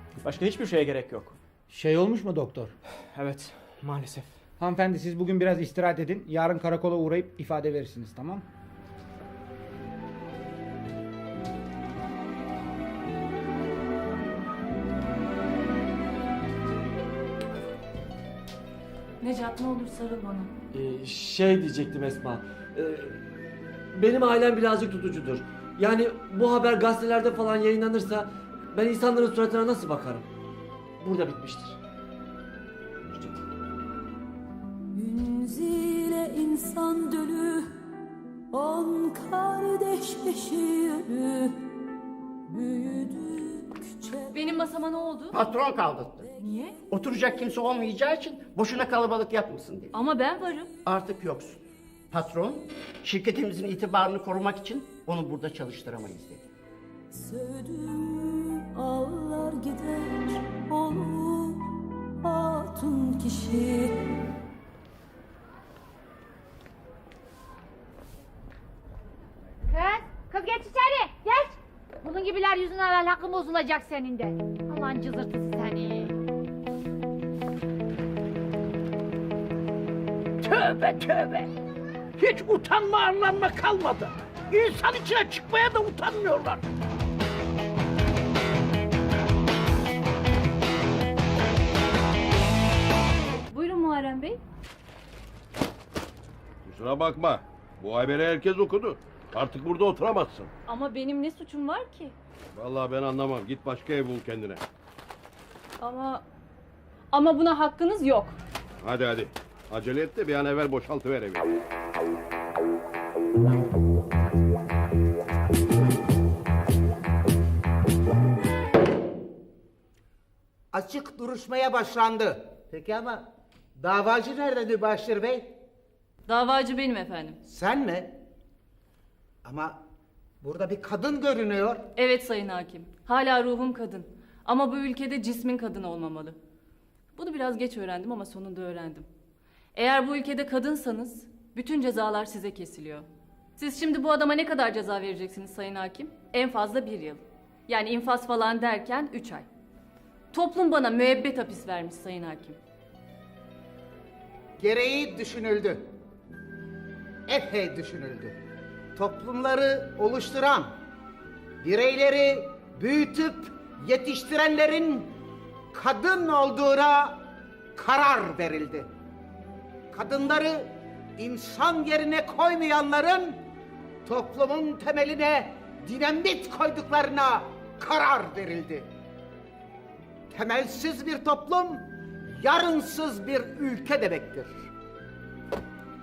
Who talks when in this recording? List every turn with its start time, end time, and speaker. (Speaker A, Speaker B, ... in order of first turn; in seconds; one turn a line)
Speaker A: 0.2-1.4
Speaker B: 1.7-2.7
Speaker A: 3.1-4.3
Speaker B: 4.6-8.4
Speaker C: 19.2-20.5
Speaker D: 20.7-23.2
Speaker D: 23.9-30.3
Speaker D: 31.0-31.8
Speaker D: 33.1-33.4
Speaker E: 34.9-37.7
Speaker E: 38.5-41.6
Speaker E: 42.5-44.2
Speaker C: 44.3-45.4
Speaker F: 45.3-46.3
Speaker C: 46.4-46.8
Speaker F: 46.9-49.9
Speaker C: 49.9-50.7
Speaker F: 50.8-56.5
Speaker E: 57.1-63.9
Speaker G: 69.7-76.2
Speaker H: 80.4-81.4
Speaker H: 82.2-86.6
Speaker C: 93.5-94.4
Speaker I: 96.6-100.5
Speaker C: 100.7-102.1
Speaker I: 102.5-104.6
Speaker C: 105.8-106.2
Speaker C: 107.1-108.4
Speaker I: 108.8-111.4
Speaker J: 120.7-125.5
Speaker C: 126.3-127.4
Speaker J: 127.4-128.2
Speaker J: 129.4-129.8
Speaker J: 130.4-131.9
Speaker C: 131.9-136.4
Speaker C: 137.1-139.1
Speaker C: 139.7-149.4
Speaker C: 150.3-152.6
Speaker J: 154.6-155.8
Speaker J: 157.3-158.3
Speaker J: 158.9-160.7
Speaker J: 161.6-165.1
Speaker J: 165.7-167.2
Speaker J: 167.8-168.9
Speaker J: 169.9-173.4
Speaker J: 174.0-178.9
Speaker J: 180.3-184.5